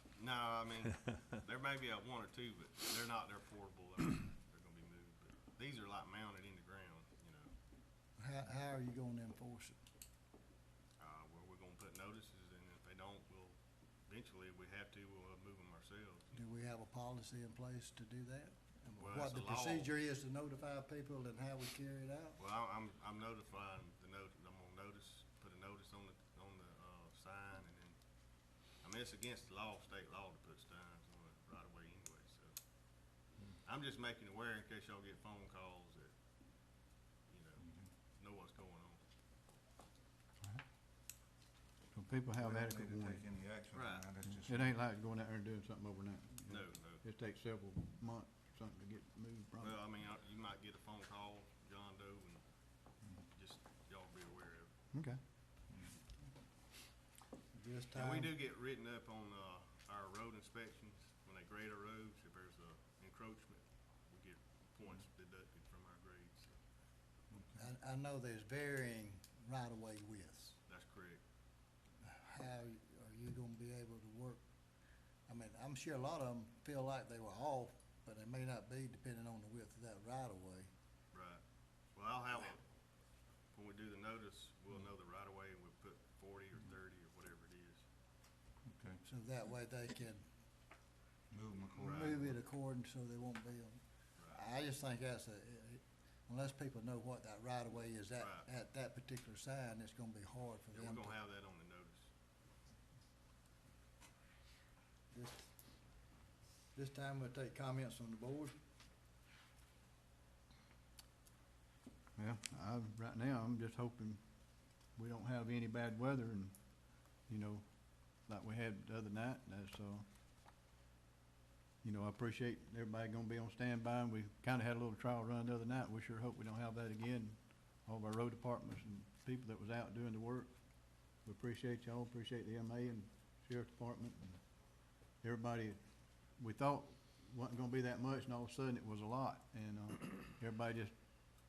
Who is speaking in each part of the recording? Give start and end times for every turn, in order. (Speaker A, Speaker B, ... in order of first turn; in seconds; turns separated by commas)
Speaker A: 0.2-7.5, Speaker B: 8.2-9.8, Speaker A: 11.0-16.3, Speaker B: 16.3-22.4, Speaker A: 19.0-19.9, Speaker A: 22.4-36.1, Speaker A: 37.3-37.6, Speaker C: 37.6-37.9, Speaker A: 38.2-39.0, Speaker D: 41.9-43.2, Speaker C: 42.4-44.7, Speaker A: 43.7-44.1, Speaker D: 44.3-49.8, Speaker A: 46.5-47.0, Speaker A: 49.6-52.4, Speaker A: 53.3-54.7, Speaker D: 54.9-55.2, Speaker C: 55.7-56.0, Speaker B: 57.5-58.3, Speaker A: 57.9-66.5, Speaker C: 67.3-67.7, Speaker B: 67.6-70.6, Speaker A: 70.7-71.2, Speaker B: 72.0-74.4, Speaker B: 75.3-80.7, Speaker A: 81.1-81.4, Speaker A: 81.9-82.7, Speaker A: 83.5-87.8, Speaker C: 88.7-89.0, Speaker B: 89.0-90.2, Speaker C: 91.3-92.4, Speaker B: 91.8-93.8, Speaker A: 91.9-92.2, Speaker B: 94.3-101.2, Speaker A: 98.2-98.5, Speaker A: 100.7-102.1, Speaker B: 105.1-105.5, Speaker B: 106.8-108.5, Speaker D: 112.2-114.2, Speaker D: 115.0-116.5, Speaker D: 117.2-120.0, Speaker D: 121.8-134.4, Speaker D: 135.2-135.8, Speaker D: 136.3-140.9